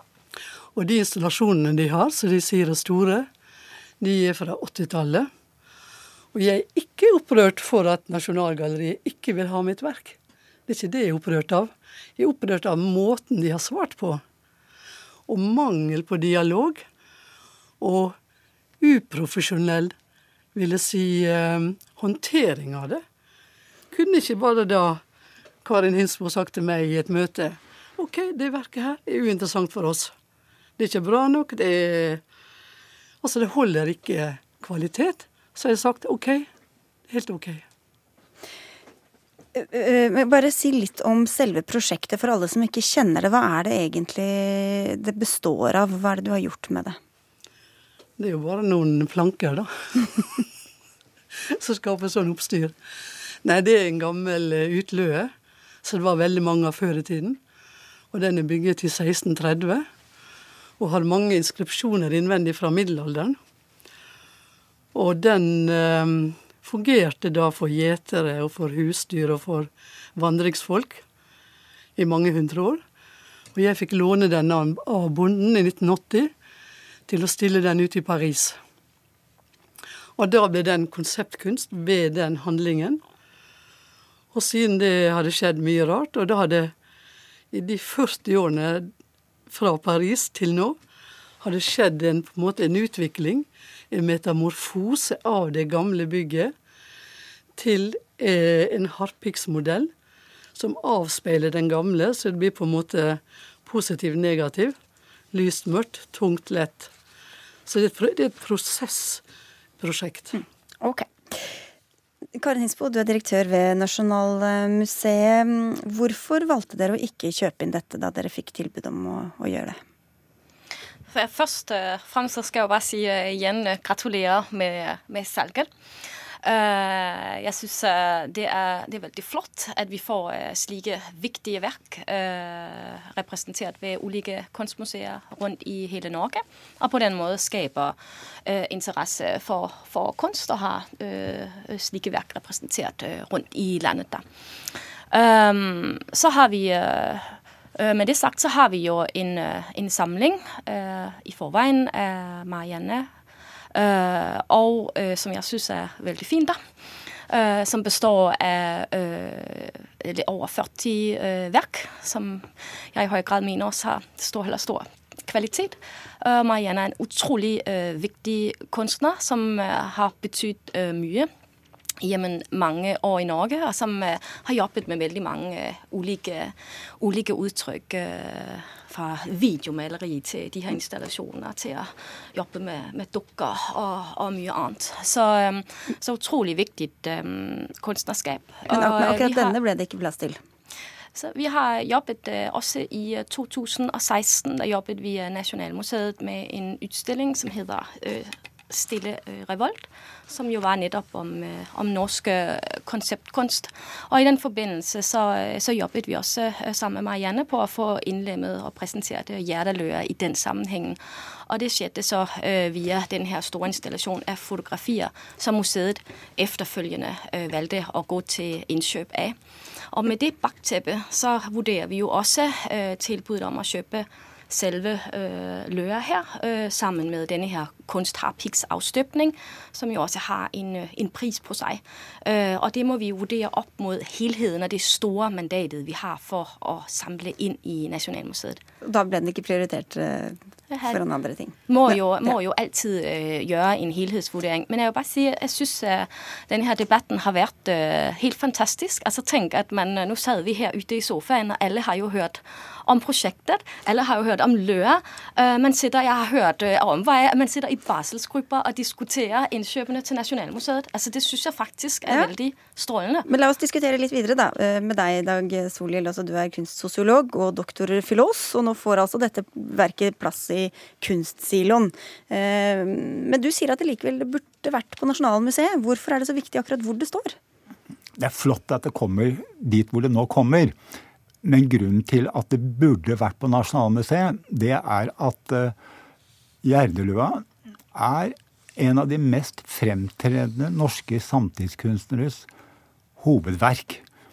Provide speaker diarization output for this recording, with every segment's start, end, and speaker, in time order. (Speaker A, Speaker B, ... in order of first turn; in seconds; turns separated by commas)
Speaker A: 0.8-3.3, Speaker A: 4.0-5.3, Speaker A: 6.3-14.2, Speaker A: 15.3-16.8, Speaker A: 17.8-18.2, Speaker A: 18.8-19.9, Speaker A: 20.6-23.0, Speaker A: 23.9-25.0, Speaker A: 25.6-30.1, Speaker A: 30.8-32.2, Speaker A: 33.2-36.5, Speaker A: 37.1-37.6, Speaker B: 39.5-47.0, Speaker A: 48.2-50.4, Speaker A: 51.5-52.8, Speaker A: 53.4-55.3, Speaker A: 55.8-57.4, Speaker A: 58.1-59.9, Speaker A: 60.8-63.4, Speaker A: 64.9-71.0, Speaker A: 72.0-72.8, Speaker A: 73.5-76.3, Speaker A: 77.1-78.6, Speaker A: 80.2-83.0, Speaker A: 84.3-86.7, Speaker A: 87.5-88.9, Speaker A: 89.5-90.8, Speaker A: 91.4-96.5, Speaker A: 97.6-99.9, Speaker A: 100.5-104.8, Speaker A: 105.3-106.9, Speaker A: 107.7-109.2, Speaker A: 109.8-110.4, Speaker B: 110.3-111.5, Speaker B: 112.4-119.8, Speaker C: 121.1-125.7, Speaker C: 126.4-153.1, Speaker C: 153.7-156.6, Speaker C: 157.3-171.3, Speaker C: 172.0-189.6, Speaker B: 188.7-190.4, Speaker C: 191.2-219.4, Speaker C: 219.9-238.6, Speaker B: 238.8-242.3, Speaker C: 240.7-241.0, Speaker C: 241.7-263.3, Speaker B: 263.3-277.4, Speaker D: 278.2-280.8, Speaker D: 281.4-285.8, Speaker D: 286.6-292.5, Speaker D: 293.2-294.0